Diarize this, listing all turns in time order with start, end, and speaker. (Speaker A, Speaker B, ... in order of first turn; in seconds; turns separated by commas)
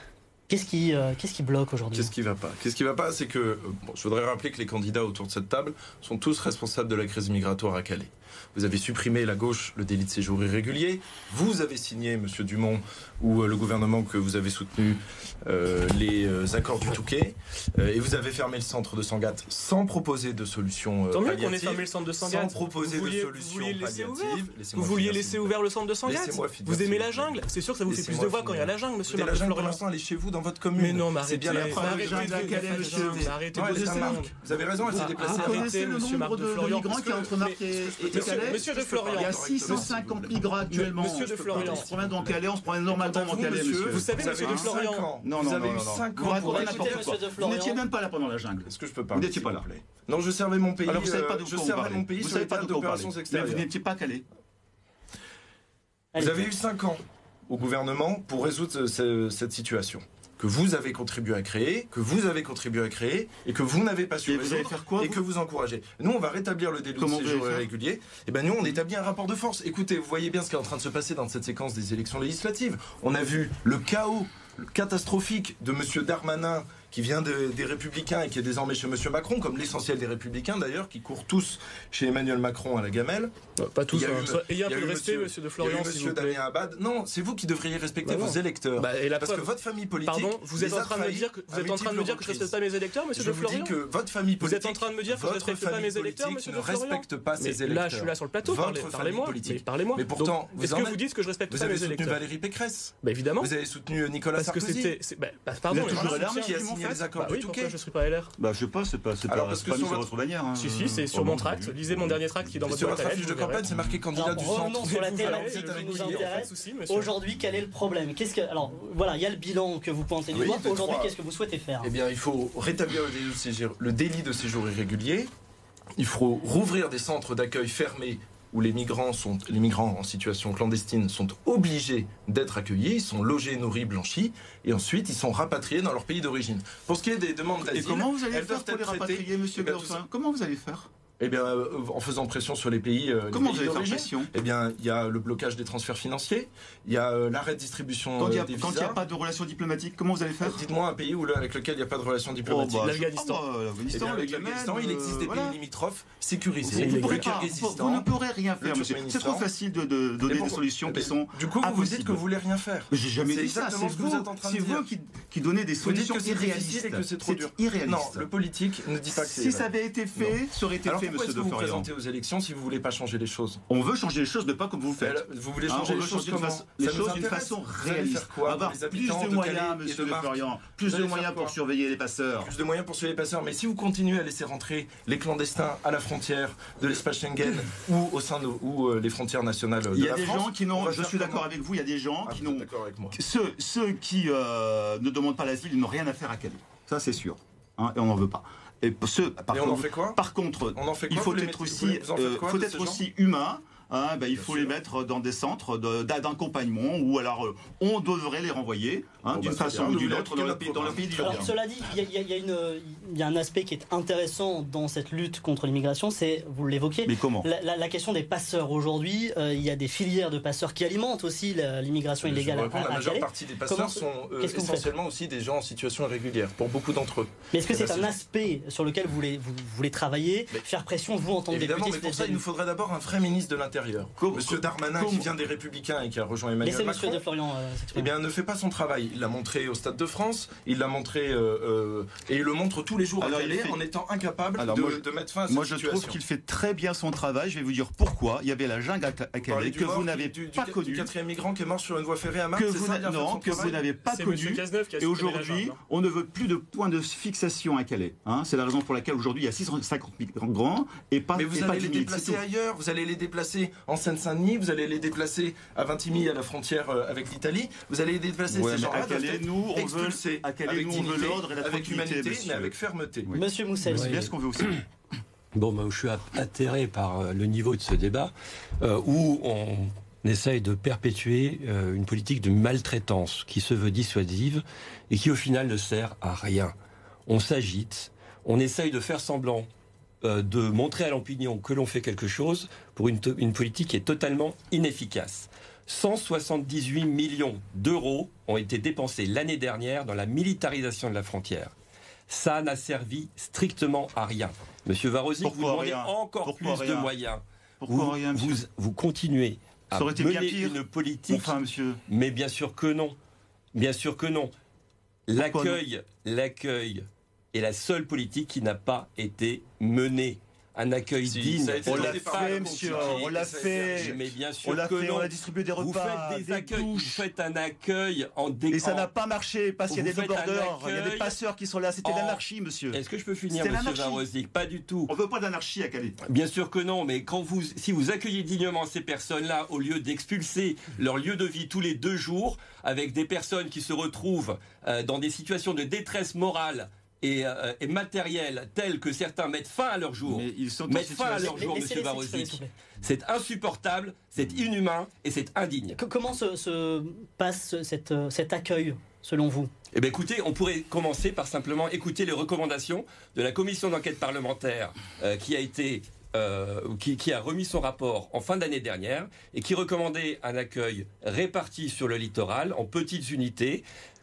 Speaker A: 0.5-2.1, Speaker B: 1.9-35.8, Speaker C: 21.1-29.8, Speaker C: 30.7-39.9, Speaker D: 31.4-34.2, Speaker D: 34.9-49.6, Speaker B: 37.8-47.1, Speaker C: 40.7-41.9, Speaker C: 43.7-45.1, Speaker A: 46.2-47.8, Speaker B: 48.6-53.6, Speaker D: 50.8-54.2, Speaker A: 56.1-56.5, Speaker B: 56.1-83.3, Speaker D: 64.2-65.2, Speaker D: 67.0-67.7, Speaker C: 83.6-86.4, Speaker B: 83.9-92.5, Speaker C: 88.0-89.5, Speaker C: 90.0-93.8, Speaker B: 93.1-105.0, Speaker C: 94.4-102.2, Speaker C: 103.0-103.5, Speaker C: 104.3-108.3, Speaker D: 105.7-107.0, Speaker B: 105.7-107.7, Speaker D: 108.4-112.2, Speaker B: 109.3-110.0, Speaker C: 110.5-113.6, Speaker B: 112.7-116.4, Speaker D: 113.7-114.0, Speaker A: 114.1-121.9, Speaker C: 114.8-117.1, Speaker B: 120.3-121.1, Speaker B: 121.8-125.3, Speaker B: 126.0-140.0, Speaker D: 137.7-140.9, Speaker B: 141.2-149.0, Speaker D: 143.3-144.3, Speaker D: 148.2-150.6, Speaker B: 150.4-153.0, Speaker D: 152.4-155.6, Speaker C: 152.8-153.4, Speaker B: 153.9-158.1, Speaker D: 156.6-162.2, Speaker C: 156.7-157.4, Speaker B: 158.6-159.4, Speaker B: 160.3-164.8, Speaker D: 162.9-168.3, Speaker B: 165.8-173.6, Speaker D: 169.1-171.9, Speaker D: 173.7-182.5, Speaker B: 175.0-181.5, Speaker B: 182.4-191.5, Speaker D: 189.9-211.5, Speaker B: 192.2-193.2, Speaker B: 199.5-200.2, Speaker B: 200.7-203.0, Speaker B: 204.4-204.7, Speaker B: 209.3-211.4, Speaker A: 211.2-224.9, Speaker D: 217.0-217.5, Speaker B: 222.2-228.1, Speaker A: 227.5-232.4, Speaker B: 231.5-237.2, Speaker D: 234.2-235.3, Speaker A: 236.6-238.1, Speaker B: 237.9-246.2, Speaker D: 243.2-243.8, Speaker D: 244.6-251.1, Speaker B: 249.4-253.8, Speaker D: 252.5-262.4, Speaker C: 254.0-255.8, Speaker B: 261.3-273.3, Speaker D: 268.5-272.7, Speaker D: 273.2-274.8, Speaker A: 273.3-274.2, Speaker E: 273.9-274.8, Speaker E: 275.5-286.7, Speaker E: 287.3-289.7, Speaker E: 290.2-301.7, Speaker E: 302.3-311.6, Speaker D: 305.4-307.1, Speaker D: 307.8-308.6, Speaker D: 309.9-312.0, Speaker E: 312.1-313.1, Speaker E: 313.7-314.5, Speaker E: 315.3-329.1, Speaker D: 315.4-315.8, Speaker B: 321.2-324.3, Speaker D: 321.9-327.2, Speaker D: 328.7-334.2, Speaker E: 329.9-331.3, Speaker E: 332.0-335.1, Speaker D: 335.1-336.2, Speaker E: 336.2-356.0, Speaker D: 350.2-351.9, Speaker A: 351.4-352.7, Speaker A: 355.9-359.7, Speaker E: 359.9-373.8